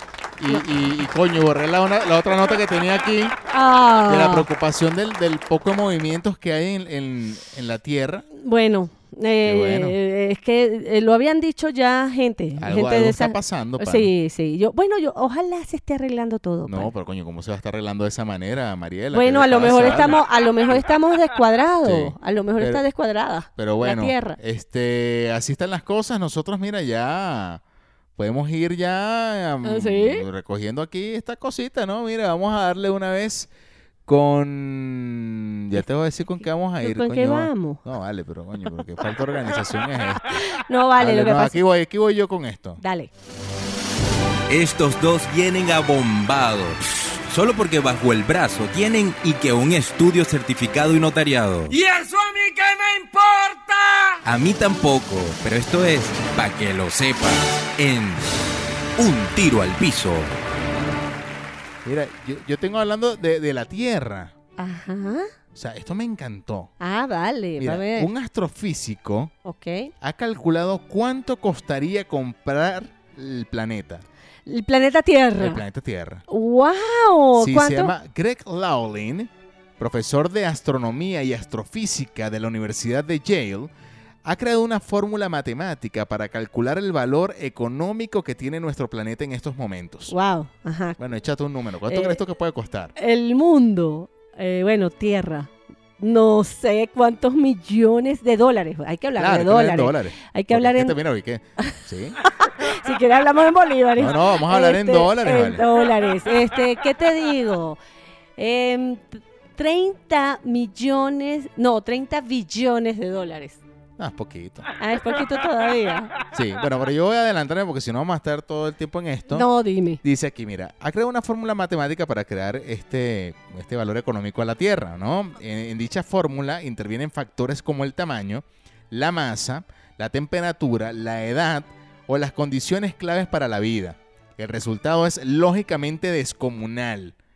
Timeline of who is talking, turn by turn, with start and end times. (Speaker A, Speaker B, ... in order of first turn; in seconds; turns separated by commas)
Speaker A: 0.4-3.4, Speaker B: 3.5-4.5, Speaker A: 4.0-8.2, Speaker B: 8.4-16.9, Speaker A: 9.4-10.0, Speaker A: 12.6-14.1, Speaker A: 16.6-20.8, Speaker B: 19.1-24.4, Speaker A: 21.8-22.8, Speaker A: 23.6-27.6, Speaker A: 28.1-33.5, Speaker B: 29.6-30.2, Speaker A: 34.0-40.4, Speaker B: 36.8-37.8, Speaker B: 40.5-41.6, Speaker A: 41.0-42.8, Speaker B: 42.8-43.1, Speaker C: 44.5-51.8, Speaker D: 51.7-54.2, Speaker C: 54.2-58.3, Speaker C: 59.0-60.3, Speaker A: 61.8-64.3, Speaker B: 64.6-65.3, Speaker A: 65.5-66.7, Speaker B: 66.8-68.1, Speaker A: 67.6-69.3, Speaker B: 69.4-69.9, Speaker A: 70.0-74.0, Speaker B: 74.5-75.6, Speaker A: 75.4-76.2, Speaker B: 76.3-77.9, Speaker A: 77.3-83.7, Speaker A: 84.2-90.1, Speaker B: 90.1-91.0, Speaker A: 91.0-92.9, Speaker B: 91.9-92.2, Speaker B: 93.0-101.0, Speaker A: 99.2-102.2, Speaker B: 101.6-107.8, Speaker A: 104.0-105.6, Speaker B: 108.4-113.6, Speaker A: 114.0-114.7, Speaker B: 114.8-116.1, Speaker A: 116.3-119.5, Speaker B: 119.3-120.0, Speaker A: 120.0-137.1